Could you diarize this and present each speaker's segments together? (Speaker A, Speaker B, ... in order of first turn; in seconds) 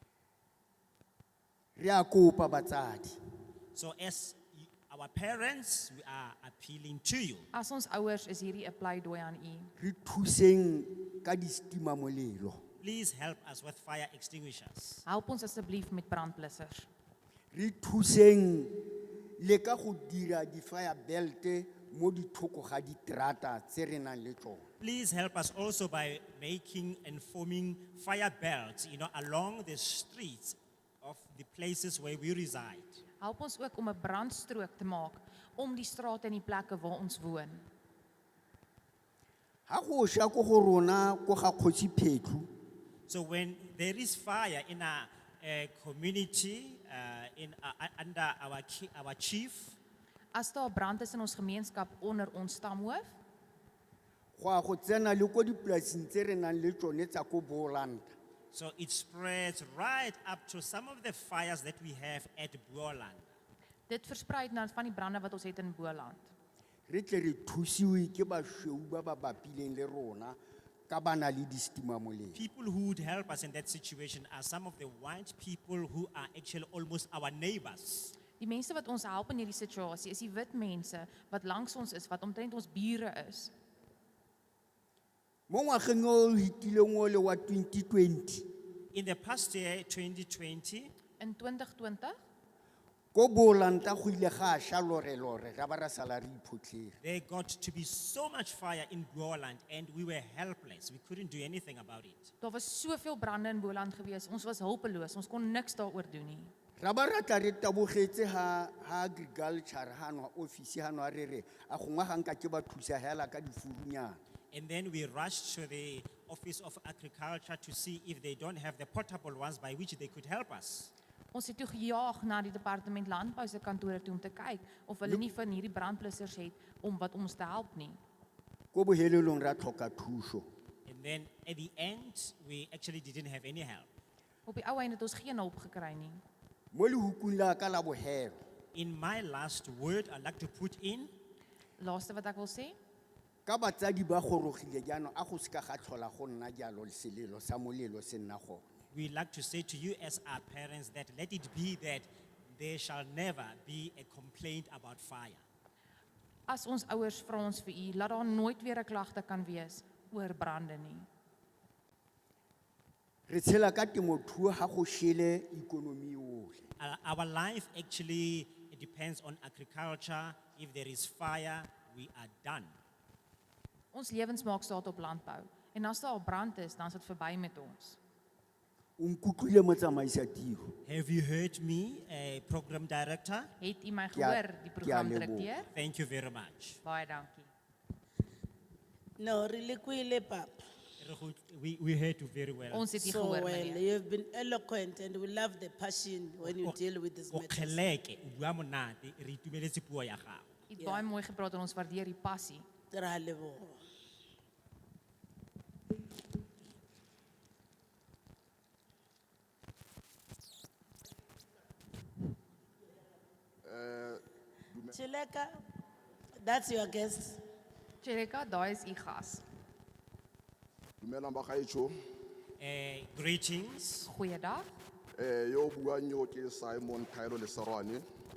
Speaker A: 1.8-3.2, 9.8-12.6, 17.5-24.7, 39.7-42.5, 54.4-58.1, 66.9-70.4, 70.9-72.4, 85.5-88.5, 93.1-97.0, 106.8-114.2, 128.7-130.5, 136.7-138.4, 143.5-148.8, 163.3-166.7, 179.0-180.8, 184.2-185.5
Speaker B: 3.7-7.5, 12.8-15.0, 24.8-33.0, 43.1-49.8, 58.5-63.3, 72.3-78.2, 88.9-90.9, 97.0-102.3, 114.5-120.9, 130.9-133.9, 138.7-141.1, 148.9-155.4, 166.8-172.7, 180.8-183.5, 185.7-186.8, 191.0-193.1, 196.4-196.8, 197.3-200.5, 222.6-224.1
Speaker C: 7.5-9.7, 15.1-16.9, 33.2-37.7, 50.3-53.2, 63.9-66.3, 78.4-83.5, 91.2-92.2, 102.4-106.5, 121.3-128.0, 134.5-136.2, 141.8-142.8, 156.5-161.1, 173.9-178.0, 183.6-185.7, 186.8-187.5, 192.7-193.8, 200.7-202.7, 218.0-219.4, 224.1-224.7
Speaker D: 189.2-190.5, 193.0-197.9, 200.8-201.1, 202.9-203.8, 214.9-215.5, 216.4-217.4
Speaker E: 213.6-215.0, 221.0-221.9, 225.2-228.1